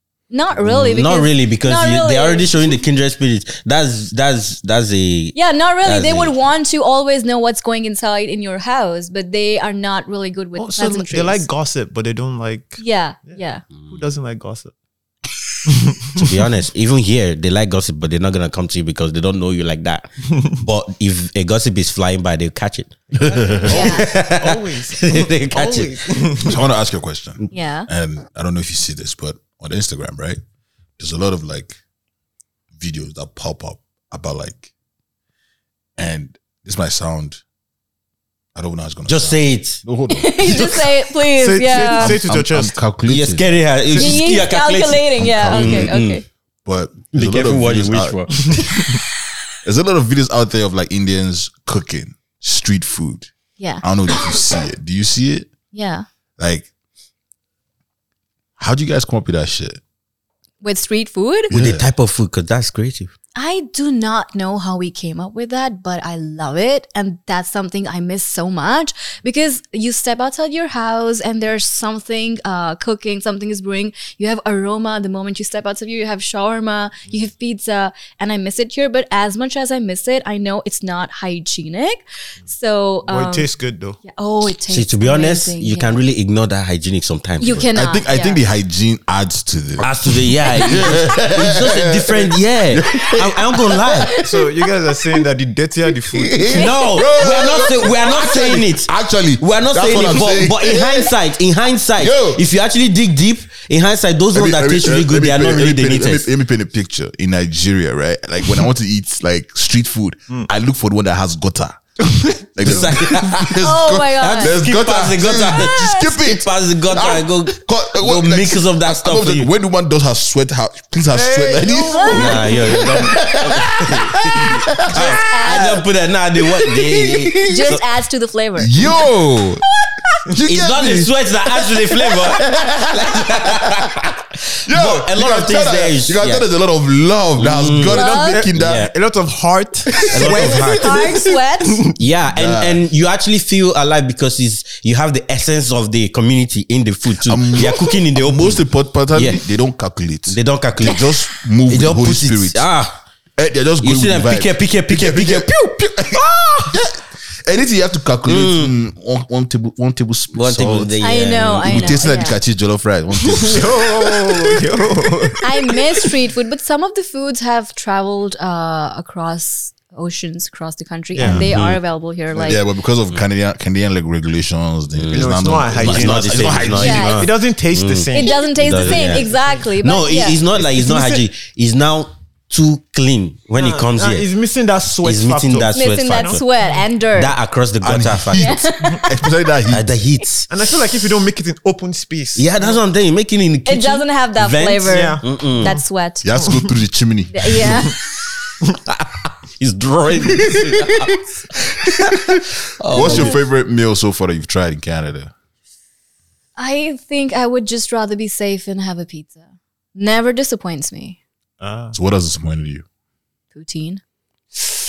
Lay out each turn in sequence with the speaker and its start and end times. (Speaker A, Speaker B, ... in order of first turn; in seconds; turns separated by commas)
Speaker A: 0.3-2.8, Speaker B: 0.6-6.3, Speaker A: 5.3-11.4, Speaker C: 10.6-13.4, Speaker A: 12.8-13.6, Speaker B: 13.7-14.1, Speaker C: 13.9-14.7, Speaker C: 15.7-16.3, Speaker B: 16.2-26.1, Speaker C: 23.2-26.6, Speaker A: 23.7-24.1, Speaker D: 26.4-30.4, Speaker A: 27.5-27.9, Speaker D: 31.0-31.8, Speaker D: 32.8-34.7, Speaker D: 36.0-37.4, Speaker D: 38.5-40.8, Speaker B: 39.1-39.9, Speaker A: 40.1-42.2, Speaker B: 40.4-40.9, Speaker C: 41.3-42.8, Speaker D: 41.8-44.4, Speaker B: 43.1-46.2, Speaker A: 44.0-46.2, Speaker D: 45.2-46.0, Speaker D: 46.7-48.7, Speaker B: 47.1-48.7, Speaker C: 48.3-48.8, Speaker D: 49.6-53.3, Speaker A: 53.6-53.8, Speaker D: 53.8-55.5, Speaker A: 55.7-56.1, Speaker D: 56.4-56.7, Speaker D: 58.6-59.8, Speaker A: 60.6-61.5, Speaker D: 61.5-61.9, Speaker B: 61.5-63.1, Speaker A: 63.4-86.0, Speaker C: 83.0-84.0, Speaker B: 84.7-87.7, Speaker A: 87.4-88.4, Speaker D: 87.7-94.5, Speaker B: 89.8-94.2, Speaker C: 94.2-96.5, Speaker D: 96.1-101.1, Speaker B: 96.5-106.3, Speaker D: 102.0-102.4, Speaker D: 104.3-111.8, Speaker C: 112.0-112.7, Speaker D: 112.5-125.2, Speaker B: 112.6-119.5, Speaker A: 113.6-114.6, Speaker A: 115.5-116.1, Speaker C: 121.1-122.6, Speaker A: 121.9-122.3, Speaker B: 122.1-127.8, Speaker A: 124.9-125.8, Speaker D: 126.7-127.2, Speaker A: 127.4-128.7, Speaker D: 128.6-129.6, Speaker D: 130.3-131.1, Speaker B: 130.4-136.5, Speaker D: 132.1-134.0, Speaker D: 134.7-138.9, Speaker B: 137.4-138.9, Speaker C: 137.9-142.0, Speaker A: 137.9-138.4, Speaker D: 139.9-140.7, Speaker B: 140.1-141.2, Speaker A: 140.8-141.8, Speaker B: 142.0-149.4, Speaker D: 142.3-142.8, Speaker D: 147.2-152.7, Speaker B: 150.3-153.0, Speaker D: 153.4-164.6, Speaker B: 153.8-156.8, Speaker B: 158.3-158.7, Speaker B: 160.3-162.0, Speaker A: 161.0-162.4, Speaker C: 163.2-165.8, Speaker A: 165.4-172.6, Speaker C: 171.1-171.4, Speaker B: 171.2-171.8, Speaker D: 172.4-177.2, Speaker B: 174.9-184.3, Speaker C: 175.1-179.6, Speaker A: 176.8-177.3, Speaker A: 178.1-180.4, Speaker C: 180.5-181.2, Speaker C: 183.6-186.4, Speaker B: 185.0-186.4, Speaker A: 185.7-187.3, Speaker B: 187.1-188.6, Speaker D: 187.8-189.9, Speaker A: 188.4-189.1, Speaker B: 189.7-190.5, Speaker C: 190.5-192.8, Speaker B: 192.4-195.8, Speaker A: 193.7-196.3, Speaker C: 194.9-195.8, Speaker D: 196.2-197.9, Speaker A: 197.3-198.0, Speaker B: 199.3-203.4, Speaker D: 202.8-205.3, Speaker A: 206.6-211.2, Speaker C: 211.6-211.9, Speaker D: 211.9-212.8, Speaker A: 213.5-214.0